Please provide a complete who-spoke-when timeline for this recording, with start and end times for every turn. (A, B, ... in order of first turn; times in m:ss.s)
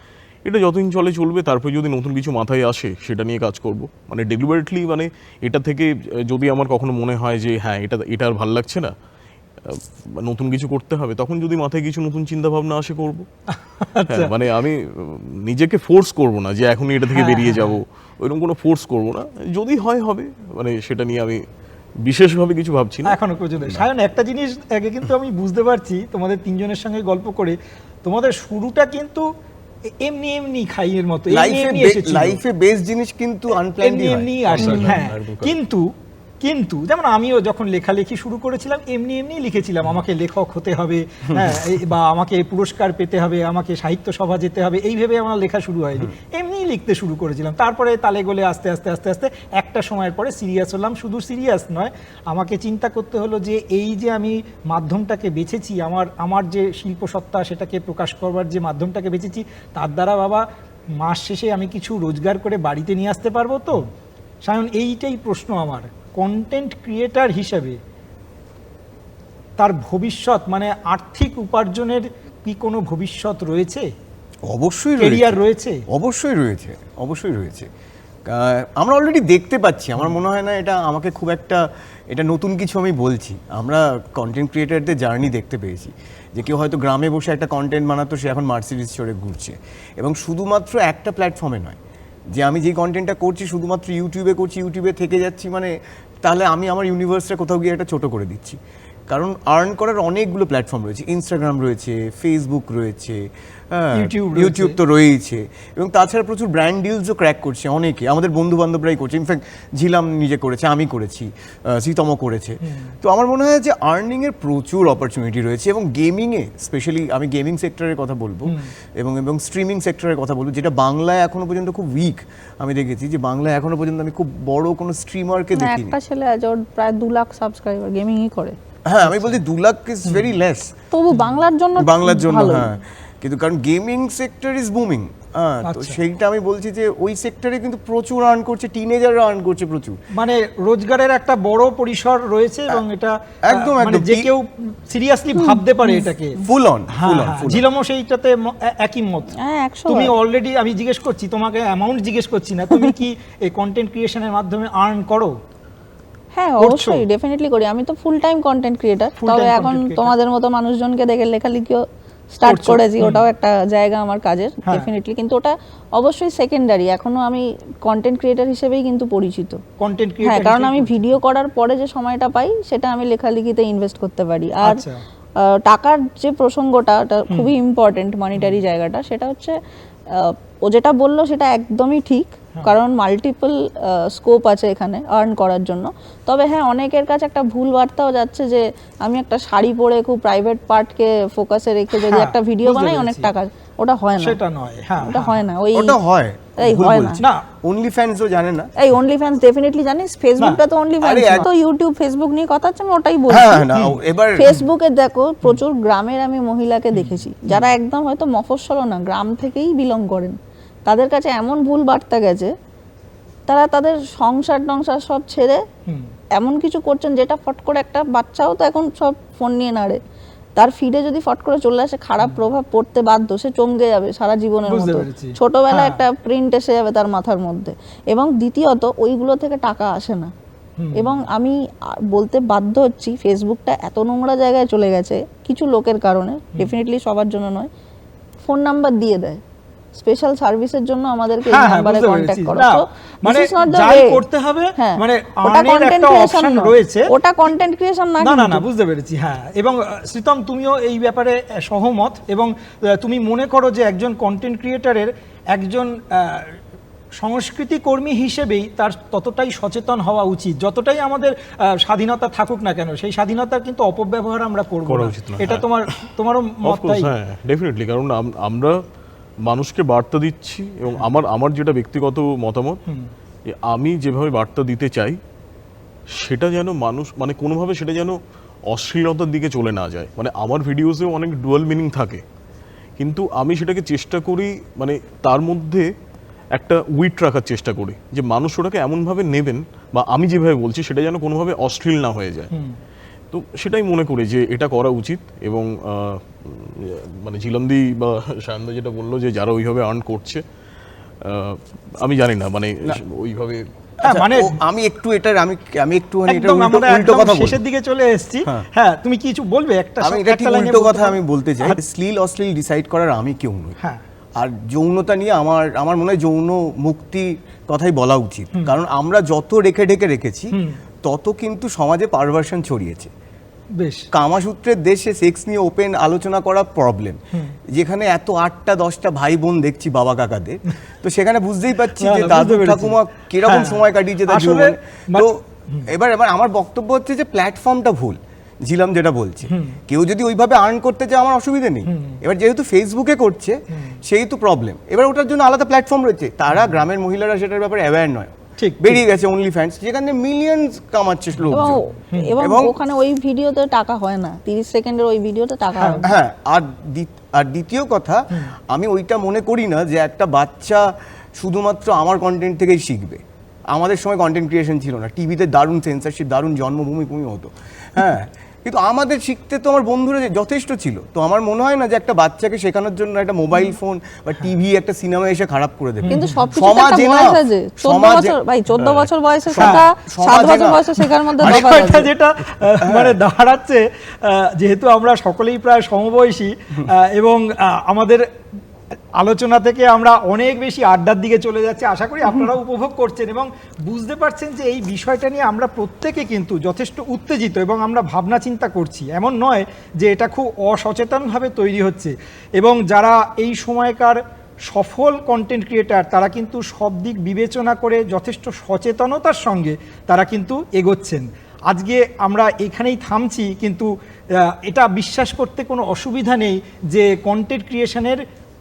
0:00.4-0:08.9 A
0:09.6-0:13.3 A
0:13.8-0:14.3 B
0:14.1-0:21.4 A
0:17.1-0:17.8 B
0:22.0-0:23.9 A
0:23.1-0:29.3 B
0:30.0-0:32.4 B
0:31.3-0:35.0 C
0:33.8-1:00.4 B
0:34.5-0:35.6 A
1:01.0-1:03.9 B
1:04.4-1:07.8 B
1:09.6-1:13.9 B
1:14.5-1:17.7 C
1:15.0-1:15.8 B
1:18.3-1:31.8 C
1:32.3-1:38.6 C
1:39.1-2:06.0 C
1:43.9-1:44.8 B
1:52.6-1:52.9 B
1:58.5-1:58.7 B
2:05.6-2:08.6 D
2:08.9-2:10.7 C
2:10.9-2:12.7 D
2:11.1-2:11.4 B
2:11.8-2:20.0 C
2:15.7-2:16.0 B
2:20.2-2:26.4 B
2:23.4-2:24.3 C
2:25.4-2:26.0 D
2:26.4-2:27.7 C
2:27.0-2:29.3 B
2:29.4-2:30.1 D
2:29.9-2:35.4 B
2:36.4-2:49.6 D
2:36.6-2:37.0 B
2:39.2-2:40.1 B
2:42.4-2:43.2 B
2:49.8-2:51.2 B
2:50.2-2:54.8 D
2:54.6-2:55.0 B
2:55.4-2:59.6 D
3:00.1-3:14.4 D
3:11.9-3:13.3 B
3:14.2-3:15.4 B
3:15.0-3:16.0 D
3:15.8-3:18.7 C
3:16.6-3:17.2 D
3:17.2-3:17.4 B
3:18.8-3:23.7 D
3:21.0-3:21.5 C
3:23.3-3:24.6 C
3:23.7-3:24.6 B
3:24.4-3:32.5 D
3:26.9-3:27.7 B
3:33.5-3:35.6 D
3:35.9-3:36.1 B
3:36.4-3:40.0 D
3:40.6-3:50.3 D
3:44.7-3:46.0 B
3:50.8-3:51.2 B
3:51.0-3:57.7 D
3:58.4-3:59.4 D
4:00.0-4:04.2 D
4:01.5-4:07.1 B
4:04.8-4:08.6 D
4:08.2-4:16.6 B
4:17.2-4:27.1 B
4:24.9-4:25.7 A
4:26.6-4:28.8 A
4:29.4-4:32.8 A
4:33.5-4:35.2 A
4:36.1-4:42.2 A
4:43.0-4:45.9 A
4:46.5-4:52.5 A
4:52.5-4:52.8 B
4:53.3-5:00.4 A
5:01.2-5:03.7 A
5:04.0-5:07.6 C
5:04.0-5:04.6 B
5:06.3-5:11.8 B
5:10.0-5:13.8 C
5:14.4-5:23.1 C
5:20.5-5:20.8 B
5:23.8-5:24.1 B
5:24.1-5:27.2 C
5:27.7-5:51.8 C
5:32.0-5:35.9 B
5:39.5-5:39.8 B
5:41.9-5:42.2 B
5:43.7-5:44.0 B
5:48.6-5:49.0 B
5:51.4-5:52.3 B
5:51.5-5:56.1 D
5:52.4-5:52.8 C
5:55.8-5:56.0 B
5:56.0-6:18.4 C
6:16.0-6:16.4 B
6:16.1-6:22.1 D
6:19.5-6:21.9 C
6:19.6-6:19.9 B
6:21.4-6:28.3 B
6:22.8-6:23.2 C
6:29.2-6:58.2 B